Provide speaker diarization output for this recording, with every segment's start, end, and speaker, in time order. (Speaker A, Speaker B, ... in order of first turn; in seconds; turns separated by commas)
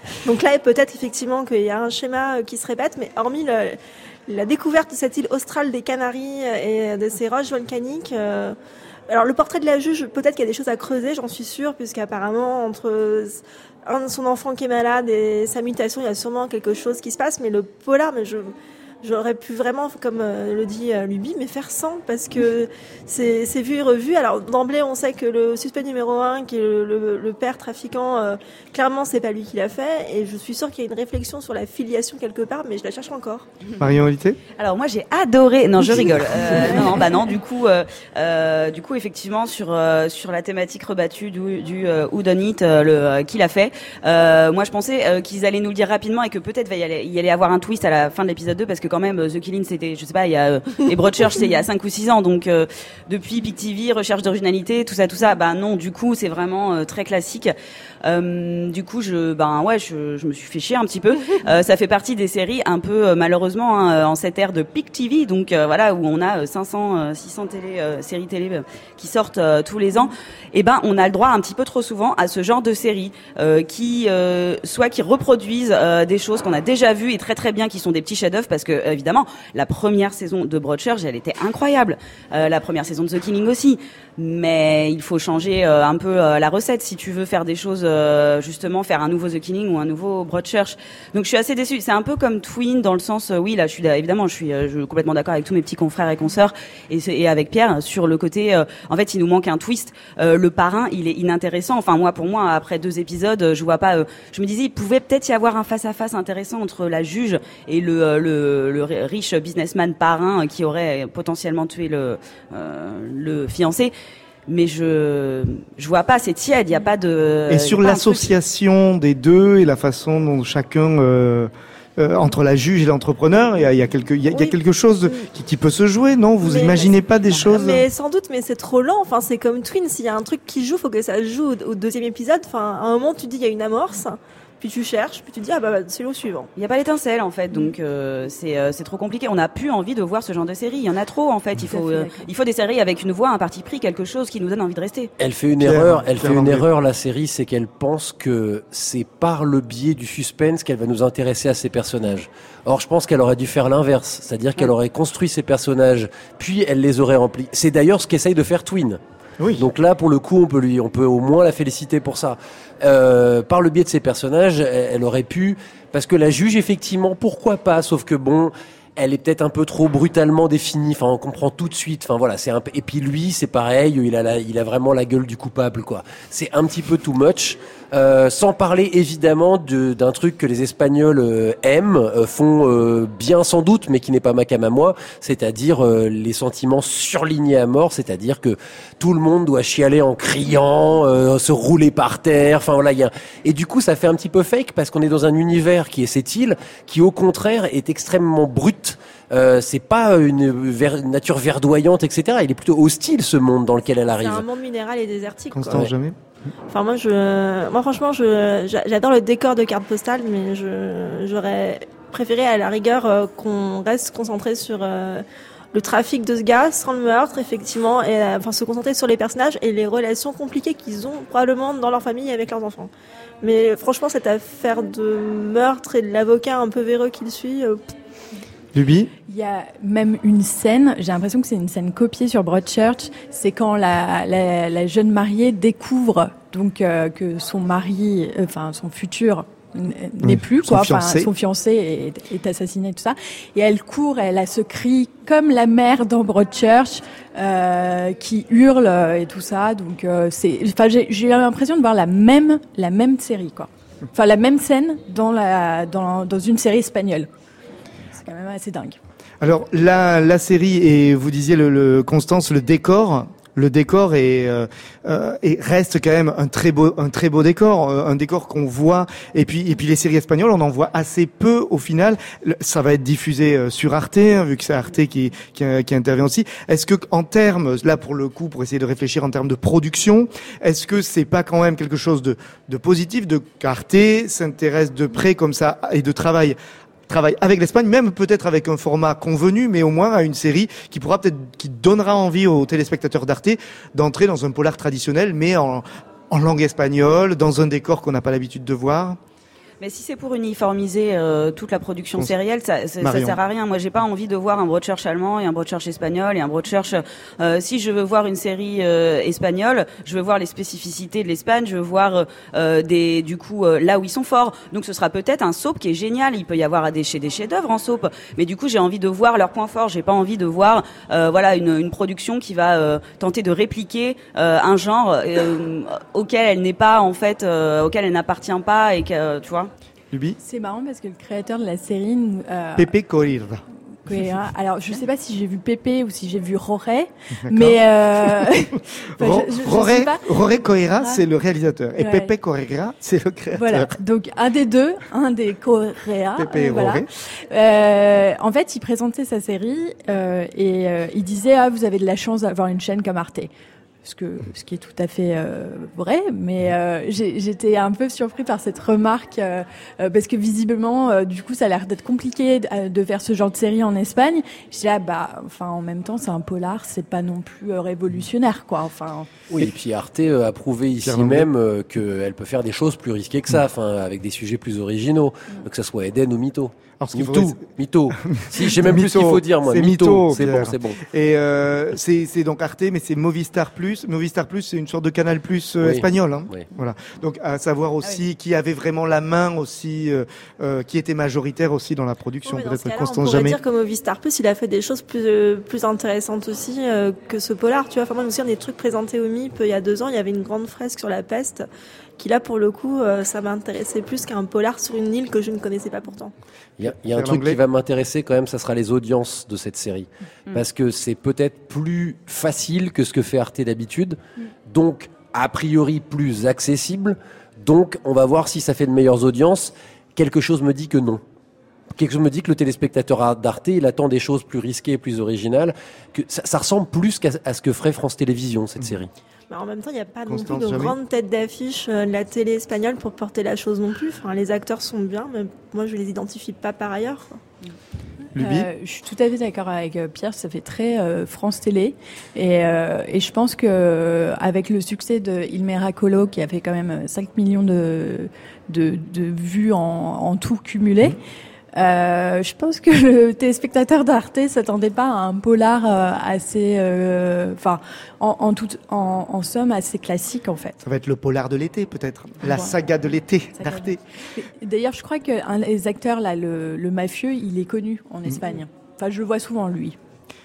Speaker A: 0.2-8.6, Speaker A: 9.1-33.5, Speaker B: 33.8-34.4, Speaker C: 34.6-57.5, Speaker B: 35.8-36.9, Speaker C: 58.0-113.9, Speaker C: 114.5-118.3, Speaker B: 117.5-127.9, Speaker A: 126.4-126.9, Speaker C: 127.2-127.8, Speaker A: 127.5-136.5, Speaker C: 136.6-145.1, Speaker D: 141.7-142.3, Speaker E: 145.2-159.0, Speaker B: 145.6-146.7, Speaker B: 159.4-159.7, Speaker E: 159.6-204.4, Speaker A: 204.1-205.9, Speaker B: 205.5-206.2, Speaker A: 206.7-227.9, Speaker B: 228.7-229.1, Speaker D: 229.3-257.3, Speaker B: 240.2-241.3, Speaker D: 258.1-259.0, Speaker B: 259.4-286.6, Speaker B: 287.1-299.2, Speaker C: 299.8-329.7, Speaker B: 303.0-303.4, Speaker B: 330.1-330.4, Speaker D: 330.4-332.9, Speaker B: 332.8-333.6, Speaker D: 334.0-341.2, Speaker B: 337.4-338.5, Speaker B: 339.2-343.9, Speaker D: 342.0-342.3, Speaker D: 343.5-353.5, Speaker B: 346.4-347.1, Speaker D: 354.0-369.3, Speaker E: 369.5-381.0, Speaker B: 371.0-371.5, Speaker B: 377.0-393.6, Speaker E: 385.8-386.7, Speaker A: 392.4-401.6, Speaker A: 402.2-406.3, Speaker E: 406.8-421.2, Speaker B: 406.8-407.6, Speaker E: 421.9-429.1, Speaker A: 429.5-437.4, Speaker B: 430.3-431.0, Speaker B: 438.4-438.7, Speaker D: 438.4-451.2, Speaker D: 451.8-460.8, Speaker B: 460.8-464.0, Speaker D: 462.5-462.7, Speaker D: 463.6-470.0